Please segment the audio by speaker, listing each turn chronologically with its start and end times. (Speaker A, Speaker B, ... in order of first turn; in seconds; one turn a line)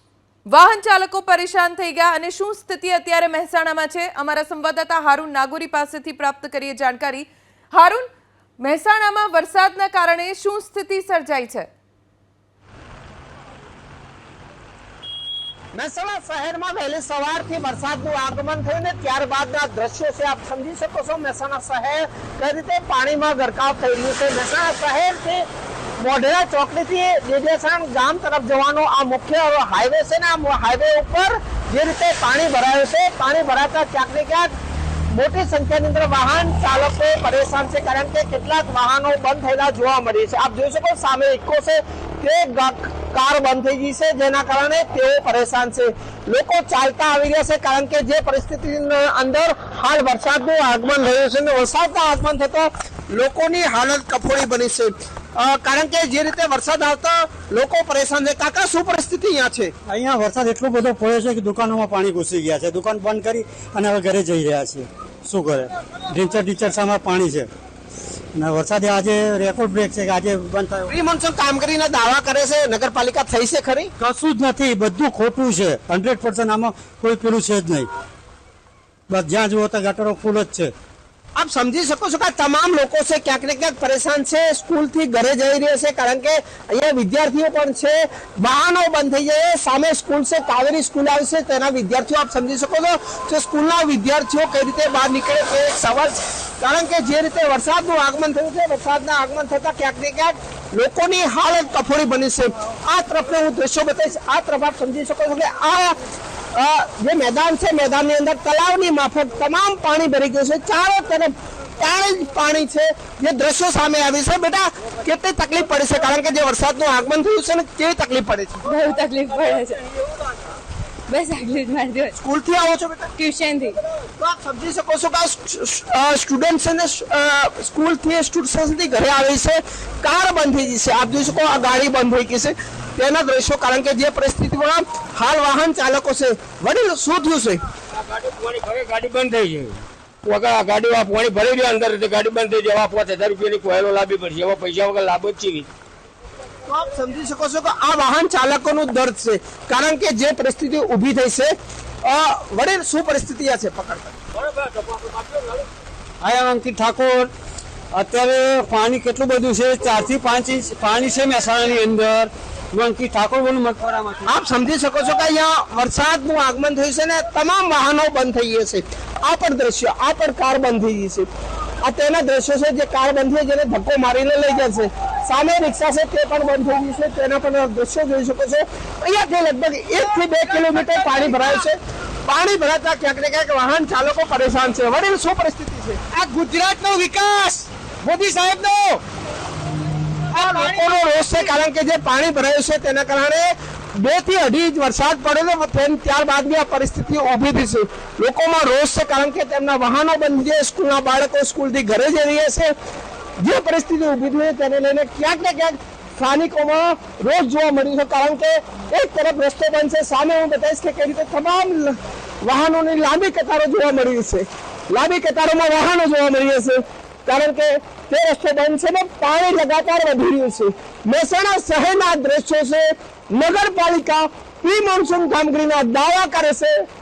Speaker A: 0.5-8.1
Speaker A: 8.6-11.7
Speaker B: 15.8-25.4
Speaker B: 26.0-34.5
Speaker B: 35.1-59.7
Speaker C: 59.9-67.5
Speaker C: 68.4-70.9
Speaker B: 70.9-73.9
Speaker C: 74.0-77.9
Speaker C: 79.1-80.7
Speaker B: 81.4-106.0
Speaker B: 106.5-118.6
Speaker D: 118.7-119.8
Speaker D: 121.1-122.2
Speaker B: 122.2-123.1
Speaker D: 123.2-123.8
Speaker B: 124.2-137.6
Speaker E: 138.0-145.7
Speaker B: 146.7-151.5
Speaker B: 152.0-154.1
Speaker C: 156.2-157.3
Speaker C: 157.9-164.3
Speaker B: 164.3-171.3
Speaker B: 171.8-186.0
Speaker C: 186.2-189.0
Speaker B: 190.3-202.7
Speaker B: 203.4-226.8